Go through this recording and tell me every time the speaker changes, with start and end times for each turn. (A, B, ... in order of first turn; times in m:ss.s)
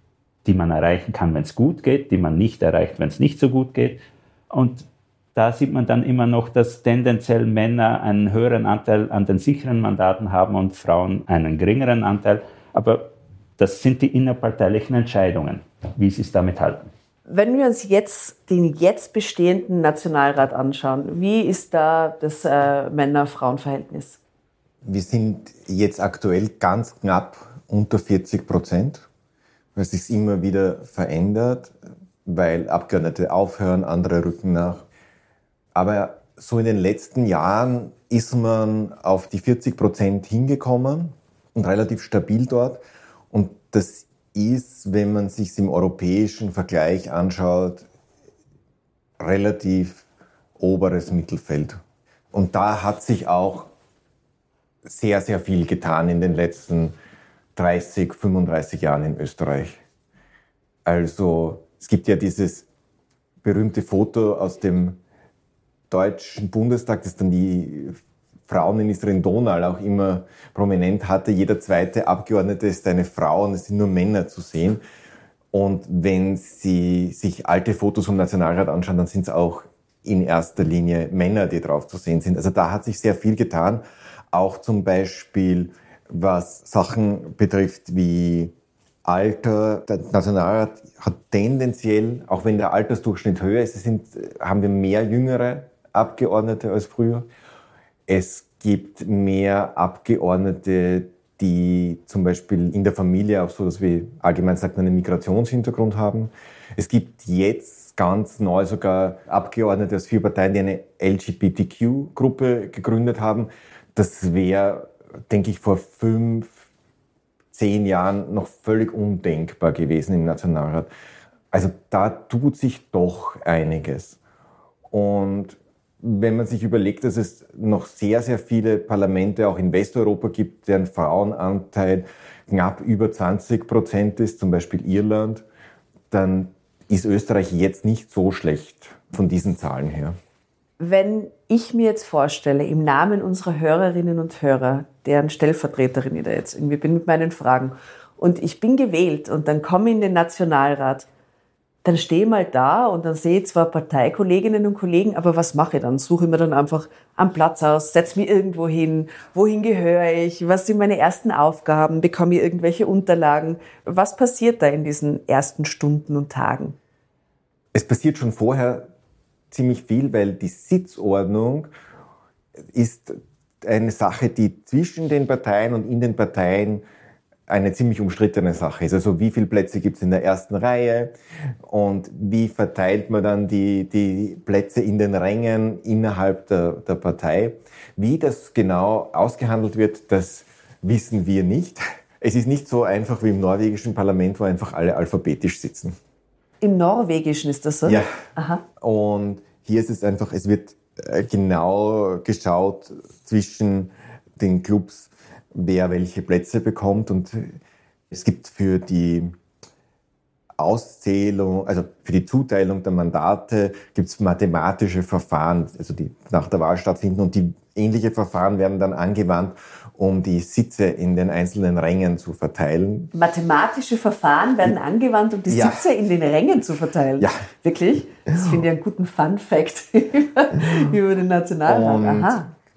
0:00.4-0:16.9 A
0:17.3-0:24.2 B
0:24.8-0:29.1 C
0:29.8-0:31.7 C
0:32.2-0:34.8 C
0:35.8-0:47.8 C
0:49.2-0:50.0 C
0:50.6-0:51.8 C
0:52.3-0:53.7 C
0:54.8-0:57.0 C
0:57.6-0:59.8 C
1:00.9-1:02.7 C
1:03.4-1:05.0 C
1:05.9-1:14.8 C
1:15.5-1:28.5 C
1:29.0-1:37.3 C
1:38.1-1:56.6 C
1:57.5-2:00.9 C
2:01.5-2:04.2 C
2:04.9-2:15.4 C
2:16.1-2:20.2 C
2:20.8-2:31.1 B
2:31.8-2:46.8 B
2:47.7-2:48.9 C
2:49.5-2:51.7 C
2:52.7-2:56.8 C
2:57.5-3:01.1 C
3:01.7-3:16.0 C
3:16.6-3:18.6 B
3:17.8-3:18.1 C
3:18.8-3:27.6 C
3:28.1-3:29.4 C
3:30.6-3:43.1 C
3:43.1-3:52.5 B
3:45.5-3:45.9 C
3:47.2-3:47.4 C
3:51.7-3:52.4 C